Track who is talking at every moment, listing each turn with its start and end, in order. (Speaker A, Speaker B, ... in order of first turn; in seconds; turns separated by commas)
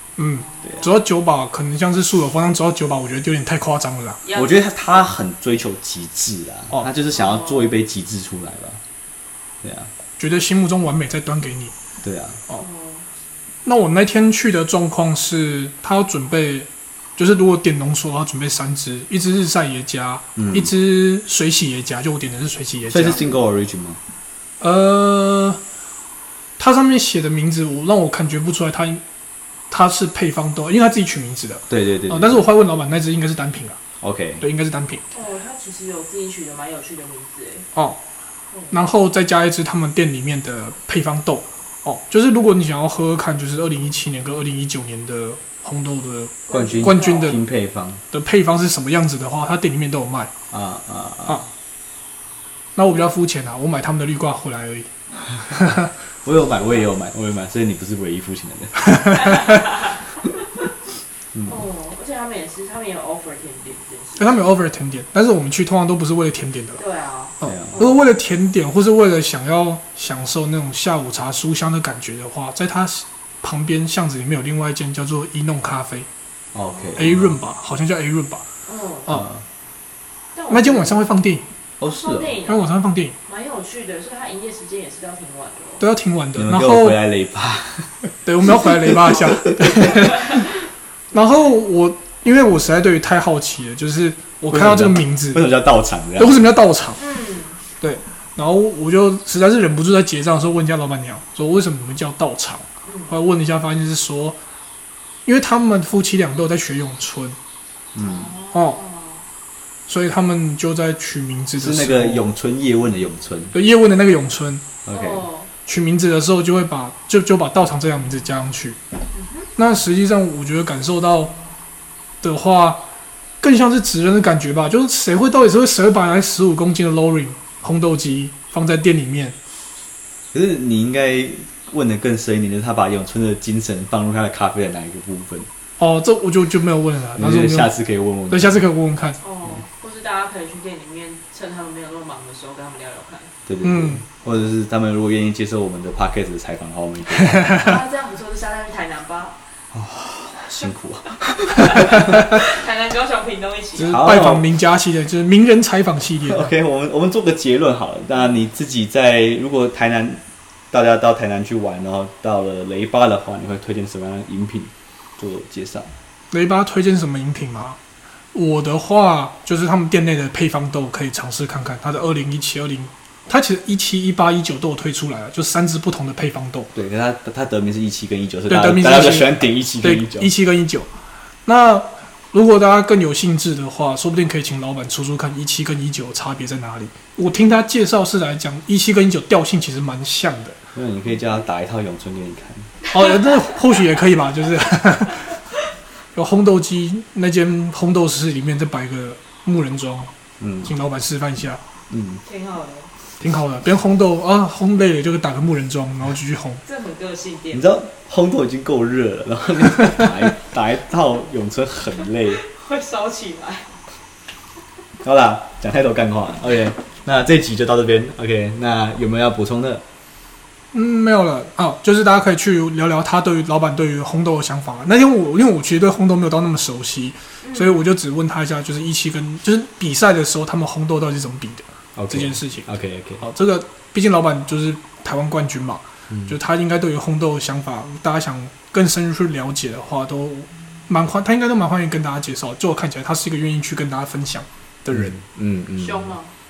Speaker A: 0.2-4.2, Speaker B: 0.4-1.0, Speaker B: 4.2-5.1, Speaker C: 4.3-8.8, Speaker B: 7.1-7.8, Speaker C: 9.6-9.9, Speaker A: 10.2-11.7, Speaker C: 12.0-12.4, Speaker B: 12.5-13.1, Speaker A: 13.6-23.2, Speaker C: 20.4-20.7, Speaker C: 22.9-24.0, Speaker A: 24.6-25.6, Speaker A: 26.6-29.0, Speaker A: 29.7-33.8, Speaker C: 31.7-32.4, Speaker C: 34.0-34.4, Speaker A: 34.4-35.0, Speaker B: 35.1-37.7, Speaker A: 38.7-47.4, Speaker B: 46.5-47.4, Speaker C: 46.5-48.0, Speaker A: 48.1-50.3, Speaker C: 50.5-51.4, Speaker A: 52.8-54.9, Speaker A: 55.5-55.9, Speaker C: 56.2-59.3, Speaker B: 59.2-60.2, Speaker B: 61.4-64.5, Speaker A: 64.2-66.8, Speaker B: 66.8-68.0, Speaker A: 67.4-76.1, Speaker C: 67.4-67.9, Speaker C: 76.5-77.3, Speaker B: 76.7-77.0, Speaker A: 77.0-78.4, Speaker B: 78.7-79.2, Speaker C: 79.2-79.4, Speaker B: 80.3-81.0, Speaker A: 80.5-81.5, Speaker C: 81.8-82.4, Speaker B: 81.8-82.7, Speaker A: 82.5-83.2, Speaker B: 83.2-85.8, Speaker A: 85.8-87.0, Speaker C: 86.3-88.1, Speaker A: 88.2-95.4, Speaker B: 89.8-90.5, Speaker C: 94.5-96.4, Speaker A: 96.2-97.0, Speaker B: 97.0-97.6, Speaker A: 97.8-104.4, Speaker B: 102.8-103.1, Speaker A: 105.2-107.4, Speaker C: 107.9-108.3, Speaker B: 108.0-109.2, Speaker A: 108.5-108.8, Speaker A: 109.9-112.3, Speaker C: 111.6-113.5, Speaker A: 113.5-114.6, Speaker C: 114.8-115.2, Speaker B: 114.9-115.5, Speaker A: 115.7-118.8, Speaker B: 119.1-119.5, Speaker A: 119.6-121.3, Speaker A: 122.2-122.8, Speaker A: 123.4-129.3, Speaker C: 130.3-135.5, Speaker A: 135.8-137.7, Speaker C: 137.2-138.6, Speaker A: 138.3-139.2, Speaker B: 139.2-143.3, Speaker C: 143.4-147.7, Speaker A: 143.6-144.0, Speaker B: 147.5-149.4, Speaker C: 149.7-152.1, Speaker B: 151.2-154.0, Speaker A: 153.8-156.5, Speaker C: 153.8-154.5, Speaker C: 156.3-165.9, Speaker A: 166.3-167.8, Speaker A: 168.3-176.7, Speaker C: 176.7-180.3, Speaker A: 178.5-180.9, Speaker A: 181.4-190.6, Speaker C: 190.7-192.7, Speaker A: 192.9-195.3, Speaker A: 196.1-200.1, Speaker C: 200.4-200.7, Speaker A: 200.6-201.6, Speaker C: 201.9-202.2, Speaker B: 202.2-202.9, Speaker A: 203.2-206.6, Speaker B: 206.6-207.7, Speaker C: 207.5-212.4, Speaker B: 212.3-213.7, Speaker C: 215.0-219.8, Speaker A: 220.7-232.7, Speaker B: 227.4-227.8, Speaker C: 231.9-233.2, Speaker A: 233.2-245.2, Speaker C: 244.9-246.1, Speaker B: 245.8-246.3